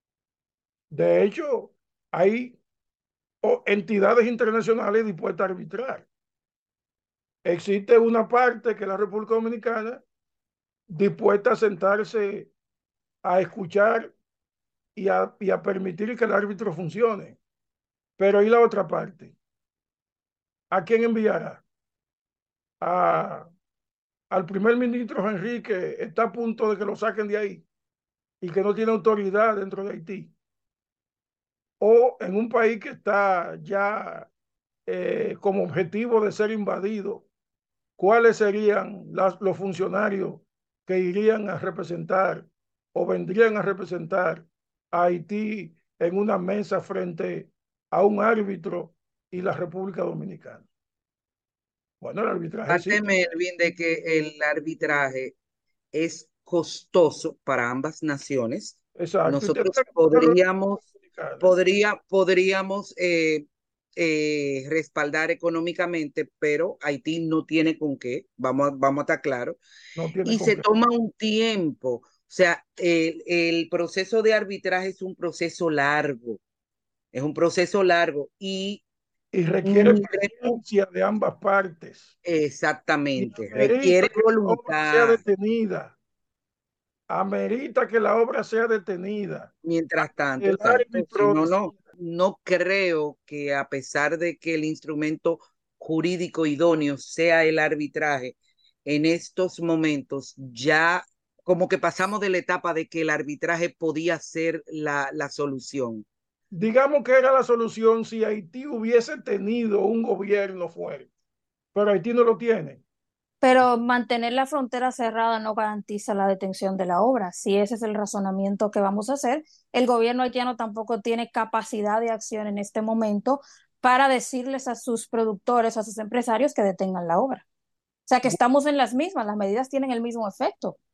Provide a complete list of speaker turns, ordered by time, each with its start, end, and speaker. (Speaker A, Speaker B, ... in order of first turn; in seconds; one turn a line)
Speaker A: 0.9-2.6
Speaker A: 3.4-6.1
Speaker A: 7.5-10.0
Speaker A: 10.9-12.5
Speaker A: 13.2-14.1
Speaker A: 15.0-17.4
Speaker A: 18.2-19.4
Speaker A: 20.7-21.6
Speaker A: 22.8-23.5
Speaker A: 24.3-27.6
Speaker A: 28.4-30.3
Speaker A: 31.8-34.3
Speaker A: 34.9-37.3
Speaker A: 38.0-50.7
Speaker A: 52.0-53.1
Speaker B: 52.7-55.4
Speaker B: 55.9-60.8
Speaker A: 59.0-61.5
Speaker B: 61.4-63.5
Speaker B: 64.0-69.6
Speaker A: 70.0-70.7
Speaker B: 70.2-76.4
Speaker B: 77.1-78.8
Speaker A: 79.3-82.1
Speaker B: 79.6-80.6
Speaker B: 82.2-85.2
Speaker A: 83.2-86.0
Speaker A: 87.1-91.9
Speaker B: 89.6-106.1
Speaker A: 106.5-111.1
Speaker A: 111.7-112.8
Speaker C: 113.4-127.4
Speaker C: 128.1-130.8